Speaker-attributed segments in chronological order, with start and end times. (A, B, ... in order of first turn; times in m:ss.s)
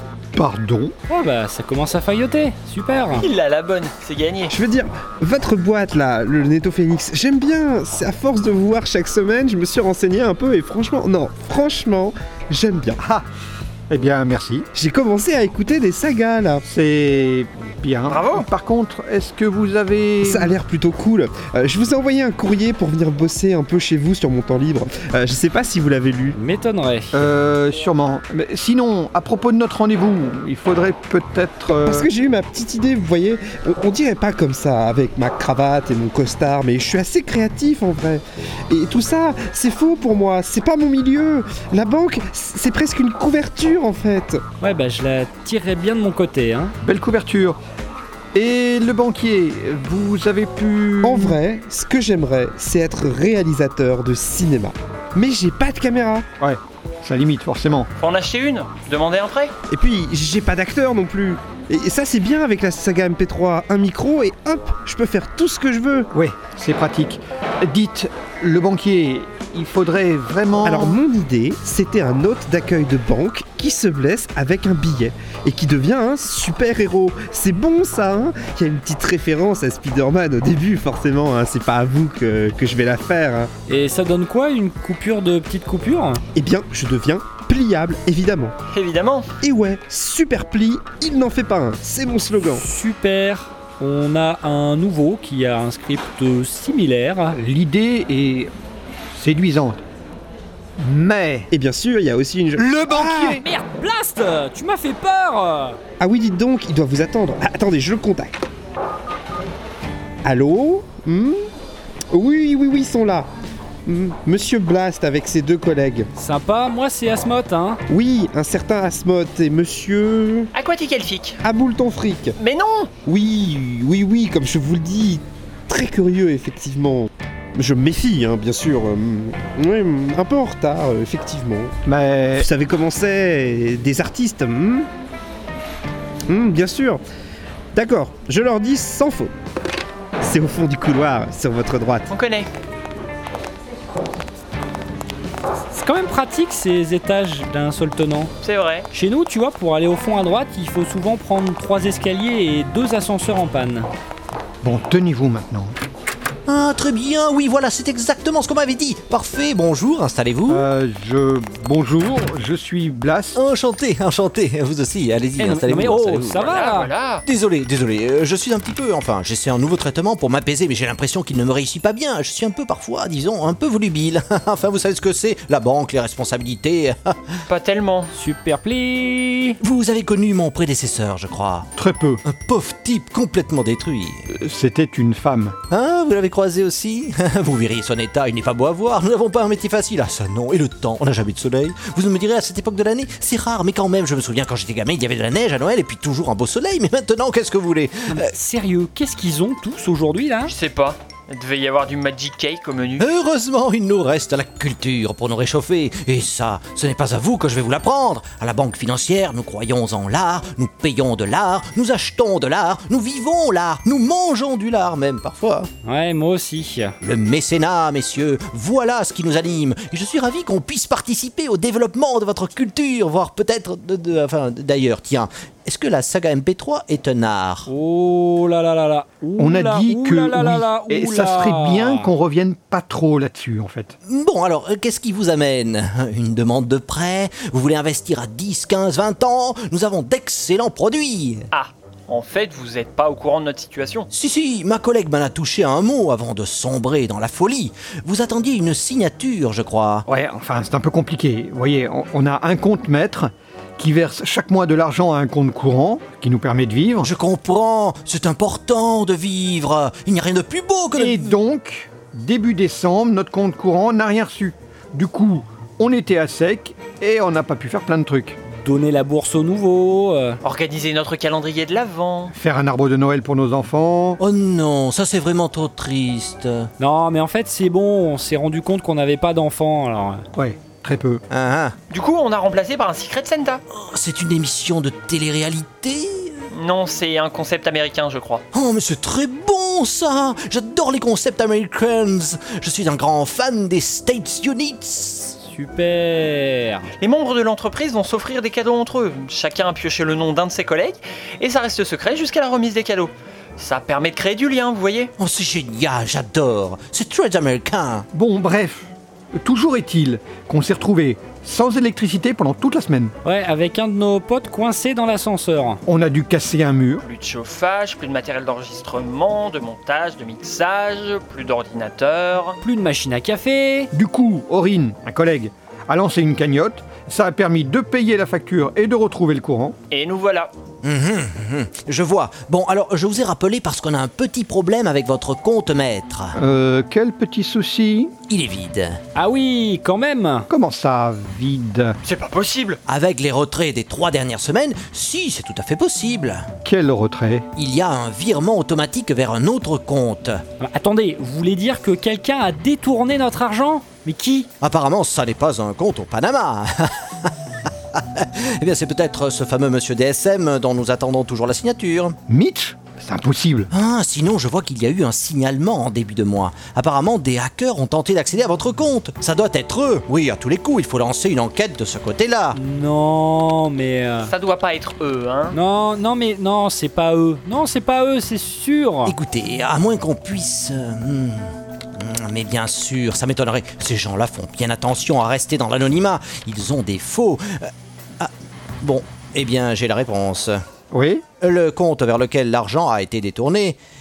0:00.3-0:00.9 A
0:01.1-0:03.3 B
0:03.2-0:04.5 C
0:04.5-0:13.0 D
0:13.0-0:13.2 A
0:13.9-0:14.7 A
0:14.7-0:16.6 D
0:16.6-0:20.6 A
0:18.1-0:18.4 C
0:20.2-0:26.4 D
0:26.3-0:27.3 B
0:27.1-0:32.1 A
0:31.9-0:38.2 D
0:38.7-0:44.4 D
0:44.6-0:46.8 B
0:46.8-0:47.6 A
0:48.3-0:51.4 A
0:51.0-0:56.2 D
0:56.4-0:57.9 A
0:58.0-0:59.5 C
0:59.7-1:06.1 D
1:06.1-1:11.0 A
1:10.6-1:23.5 D
1:23.7-1:26.2 B
1:26.4-1:28.5 D
1:28.7-1:29.3 C
1:29.4-1:32.6 D
1:32.4-1:37.4 B
1:37.4-1:38.5 A
1:39.1-1:39.8 A
1:40.8-1:41.5 A
1:41.5-1:43.4 D
1:42.6-1:43.4 A
1:43.3-1:45.8 B
1:46.0-1:48.3 D
1:50.2-1:51.3 D
1:52.1-1:53.2 D
1:53.9-1:56.0 D
1:56.2-1:57.8 B
1:57.9-2:00.5 D
2:00.5-2:01.4 C
2:01.4-2:02.3 D
2:02.4-2:02.9 C
2:03.0-2:11.7 D
2:11.8-2:12.5 A
2:12.4-2:14.8 D
2:16.3-2:17.0 D
2:17.8-2:19.3 D
2:20.2-2:22.1 D
2:22.1-2:22.5 C
2:25.7-2:28.3 B
2:28.4-2:28.9 C
2:28.9-2:33.9 B
2:34.6-2:35.8 A
2:36.5-2:40.6 E
2:40.5-2:43.4 A
2:43.4-2:46.4 E
2:45.4-2:46.9 B
2:46.3-2:47.2 C
2:47.2-2:57.4 E
2:57.5-2:58.1 C
2:58.1-2:59.6 B
2:59.6-3:01.7 E
3:01.8-3:02.2 A
3:02.2-3:04.2 E
3:04.3-3:05.6 A
3:05.7-3:18.2 E
3:18.1-3:20.5 B
3:20.5-3:23.2 C
3:23.0-3:35.7 E
3:35.8-3:37.0 B
3:37.0-3:47.7 E
3:47.7-3:52.1 B
3:49.4-3:53.9 A
3:54.0-4:01.5 E
4:01.5-4:04.1 C
4:04.1-4:10.0 E
4:10.1-4:17.1 A
4:17.0-4:21.0 E
4:20.9-4:28.4 A
4:28.5-4:30.4 B
4:30.4-4:32.3 C
4:32.3-4:34.2 A
4:34.2-4:36.7 E
4:36.8-4:40.2 B
4:40.3-4:41.2 A
4:41.3-4:41.7 E
4:41.9-4:43.6 C
4:43.7-4:46.5 E
4:46.5-4:48.4 C
4:48.5-4:55.3 E
4:55.4-4:56.9 B
4:57.0-5:05.1 C
5:05.2-5:08.0 E
5:08.1-5:13.1 A
5:13.2-5:15.8 B
5:15.8-5:17.0 A
5:17.0-5:22.6 C
5:22.6-5:23.9 B
5:23.9-5:29.8 A
5:29.9-5:30.5 C
5:30.8-5:36.3 E
5:36.3-5:38.1 A
5:38.3-5:39.0 E
5:39.1-5:40.5 B
5:40.5-5:42.0 A
5:42.0-5:42.8 C
5:42.9-5:46.4 E
5:46.6-5:47.5 A
5:47.6-5:50.4 E
5:50.6-5:54.5 B
5:54.6-5:57.3 E
5:57.9-6:02.2 E
6:02.3-6:03.7 A
6:03.7-6:12.6 E
6:12.5-6:14.3 B
6:14.2-6:15.6 C
6:15.5-6:19.2 B
6:19.0-6:30.6 E
6:30.9-6:31.2 A
6:31.4-6:33.8 E